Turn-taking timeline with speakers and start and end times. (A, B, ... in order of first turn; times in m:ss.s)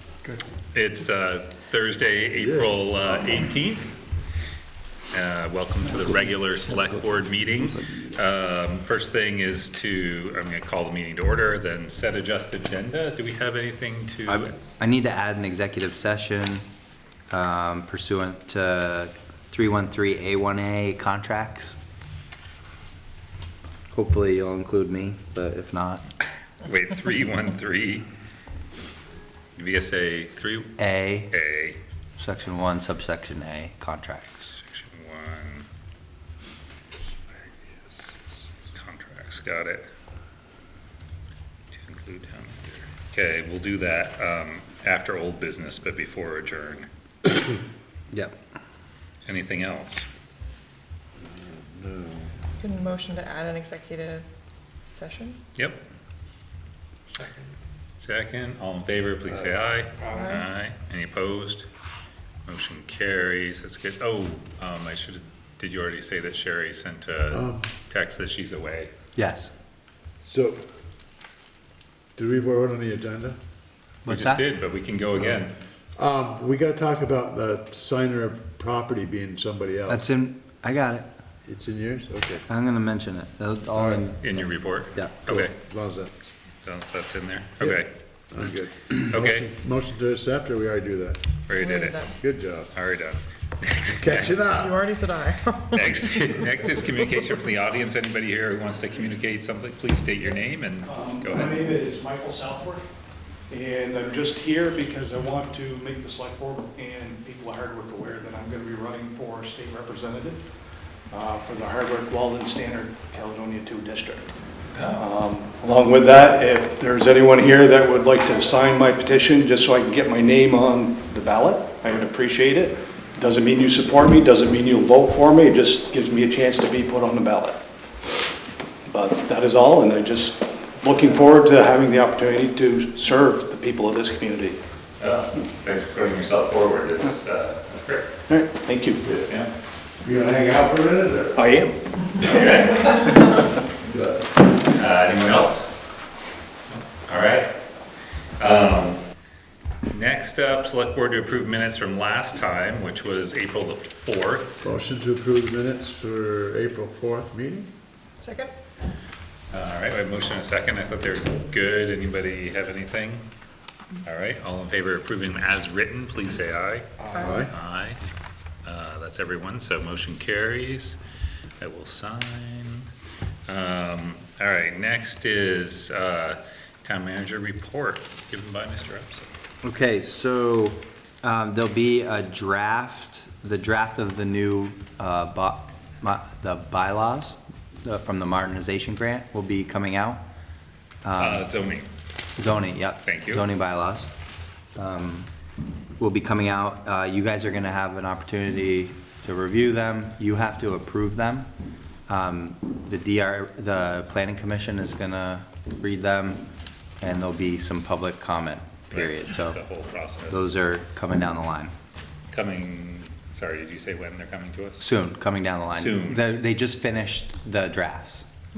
0:00.7-0:03.9 A
0:02.4-0:03.4 B
0:05.1-0:14.5 A
0:14.3-0:16.6 C
0:17.3-0:21.8 C
0:23.9-0:26.0 C
0:26.6-0:28.1 A
0:29.6-0:30.8 A
0:30.8-0:31.3 C
0:31.3-0:31.8 A
0:32.2-0:34.5 C
0:34.6-0:35.7 A
0:38.7-0:39.8 A
0:41.7-0:46.9 A
0:49.2-0:50.1 A
0:51.2-0:52.3 B
0:52.6-0:54.3 D
0:54.9-0:55.4 D
0:55.6-0:55.8 A
0:58.0-1:01.7 A
1:00.1-1:00.4 D
1:02.5-1:08.9 A
1:07.3-1:07.7 B
1:09.2-1:09.5 C
1:10.2-1:10.6 B
1:12.2-1:13.4 B
1:14.0-1:14.4 C
1:14.1-1:15.6 A
1:16.0-1:20.0 B
1:19.9-1:21.1 C
1:21.4-1:22.4 B
1:22.5-1:25.2 C
1:23.8-1:25.6 A
1:25.3-1:26.3 B
1:26.6-1:27.9 A
1:27.6-1:31.2 B
1:29.1-1:29.5 A
1:31.5-1:32.0 A
1:31.6-1:32.2 D
1:32.2-1:32.7 B
1:32.7-1:34.5 A
1:33.8-1:34.8 B
1:34.1-1:36.6 D
1:35.7-1:41.6 A
1:40.9-1:42.9 E
1:43.5-1:50.4 E
1:51.1-1:54.3 E
1:54.7-1:55.0 A
1:55.0-2:07.6 E
2:08.9-2:14.6 E
2:15.0-2:18.1 A
2:18.3-2:19.0 E
2:20.0-2:21.5 B
2:21.4-2:22.9 E
2:22.2-2:23.1 A
2:23.8-2:24.2 B
2:24.7-2:25.7 A
2:26.7-2:27.5 A
2:28.4-2:29.0 A
2:29.9-2:34.7 A
2:34.6-2:37.7 B
2:38.2-2:38.5 D
2:39.5-2:43.3 A
2:44.0-2:48.0 A
2:47.1-2:47.4 D
2:47.2-2:47.5 B
2:48.6-2:51.0 A
2:51.6-2:52.9 A
2:53.5-2:59.3 A
2:59.6-3:10.2 C
3:11.0-3:11.5 C
3:11.2-3:11.9 A
3:12.4-3:14.1 C
3:13.0-3:13.5 A
3:14.8-3:15.3 C
3:16.0-3:21.5 C
3:22.1-3:26.5 C
3:27.0-3:29.6 C
3:28.9-3:30.5 A
3:30.3-3:31.7 C
3:32.3-3:34.8 A
3:34.8-3:38.2 C
3:35.7-3:36.3 A